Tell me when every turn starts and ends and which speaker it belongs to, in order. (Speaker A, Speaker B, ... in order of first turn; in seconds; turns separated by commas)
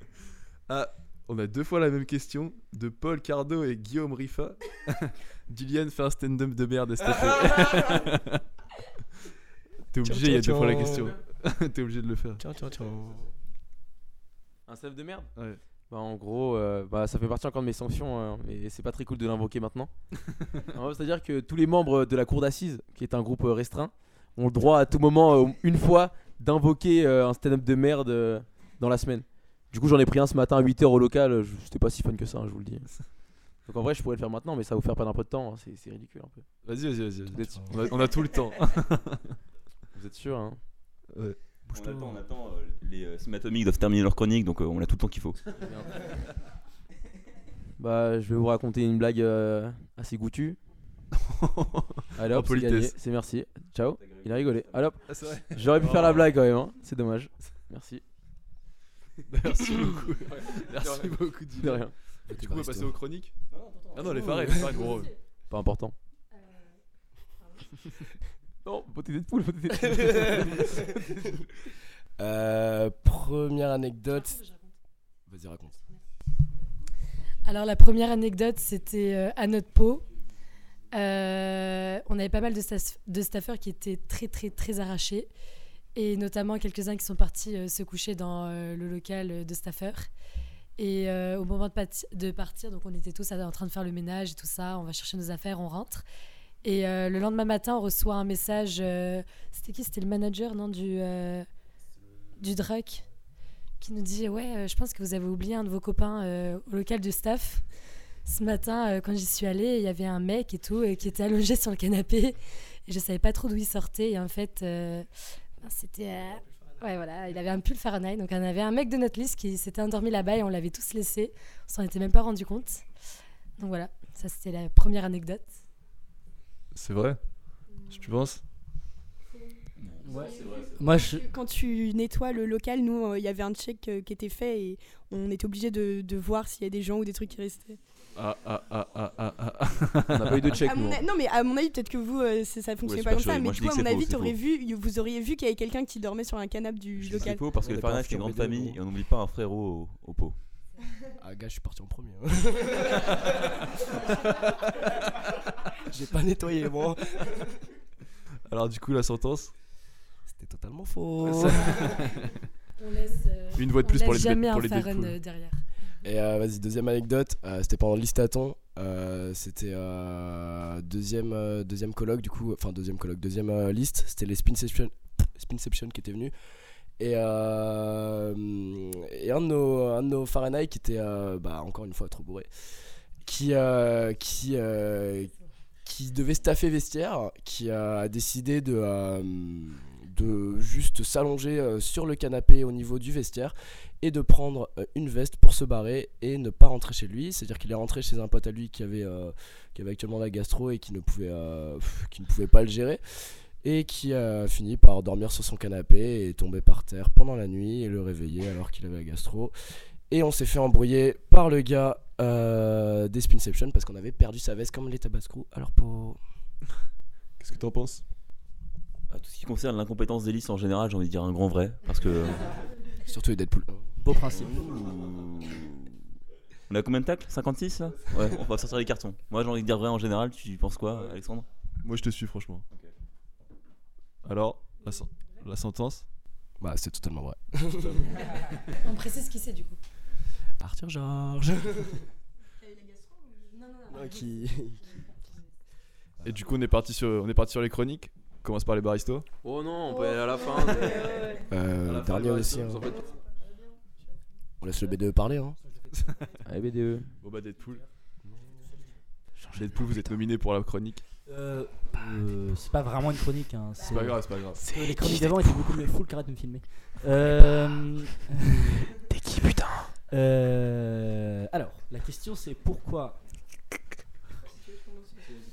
Speaker A: 0.7-8.4, Speaker A: 9.9-12.4, Speaker B: 10.0-11.2, Speaker B: 12.4-13.3, Speaker C: 14.7-15.3, Speaker A: 15.4-15.6, Speaker C: 15.9-19.9, Speaker C: 20.7-32.9, Speaker C: 33.6-36.5, Speaker A: 36.6-39.3, Speaker B: 37.3-37.7, Speaker C: 37.3-37.7, Speaker C: 39.9-40.6, Speaker A: 41.1-41.4, Speaker D: 41.7-45.4, Speaker C: 45.6-46.1, Speaker C: 47.8-50.6, Speaker A: 51.2-53.0, Speaker C: 52.2-58.0, Speaker D: 54.0-54.9, Speaker A: 55.1-56.4, Speaker A: 59.3-63.3, Speaker C: 60.8-61.9, Speaker B: 62.3-63.0, Speaker D: 63.5-64.2, Speaker A: 63.9-65.1, Speaker B: 64.2-64.8, Speaker C: 65.5-66.0, Speaker E: 66.3-66.7, Speaker C: 68.6-71.3, Speaker B: 69.9-70.6, Speaker B: 72.2-74.4, Speaker E: 74.1-74.7, Speaker B: 75.3-75.8, Speaker E: 77.5-80.0, Speaker E: 80.9-85.3, Speaker E: 86.0-90.1, Speaker E: 90.8-96.0, Speaker E: 96.6-101.5, Speaker E: 102.4-103.0, Speaker E: 103.8-107.6, Speaker E: 108.2-115.1, Speaker E: 115.6-122.8, Speaker E: 123.6-125.5, Speaker A: 126.7-127.2, Speaker A: 127.9-128.4, Speaker D: 129.8-130.9, Speaker F: 130.0-131.2, Speaker G: 131.0-137.8, Speaker A: 138.2-140.6, Speaker C: 140.1-141.0, Speaker G: 140.6-147.4, Speaker D: 142.8-144.4, Speaker D: 147.0-150.3, Speaker B: 147.2-148.8, Speaker B: 151.2-153.4, Speaker B: 153.9-157.6, Speaker A: 158.5-159.5, Speaker B: 160.3-162.0, Speaker A: 161.2-162.3, Speaker E: 162.8-165.6, Speaker A: 163.6-165.2, Speaker B: 166.0-176.3, Speaker B: 177.0-182.5, Speaker B: 183.2-185.3, Speaker B: 185.8-209.5, Speaker B: 210.1-216.2, Speaker A: 217.4-218.0, Speaker D: 219.1-222.6, Speaker B: 223.0-223.8, Speaker F: 224.0-224.8, Speaker D: 224.3-226.0, Speaker D: 226.7-231.5, Speaker A: 230.8-231.2, Speaker A: 231.8-232.7, Speaker A: 234.2-236.1, Speaker B: 236.6-238.2, Speaker E: 238.8-239.8, Speaker B: 240.6-242.1, Speaker G: 242.6-243.5, Speaker E: 243.5-245.5, Speaker B: 243.9-244.8, Speaker A: 246.2-249.3, Speaker C: 249.4-251.4, Speaker G: 250.3-251.1, Speaker B: 251.5-253.0, Speaker A: 251.8-252.9, Speaker C: 252.5-253.1, Speaker G: 253.1-254.0, Speaker B: 254.6-255.6, Speaker C: 256.4-257.1, Speaker A: 257.2-257.8, Speaker A: 259.5-261.0, Speaker F: 261.3-268.9, Speaker A: 263.9-264.7, Speaker C: 269.1-269.9, Speaker F: 270.1-273.2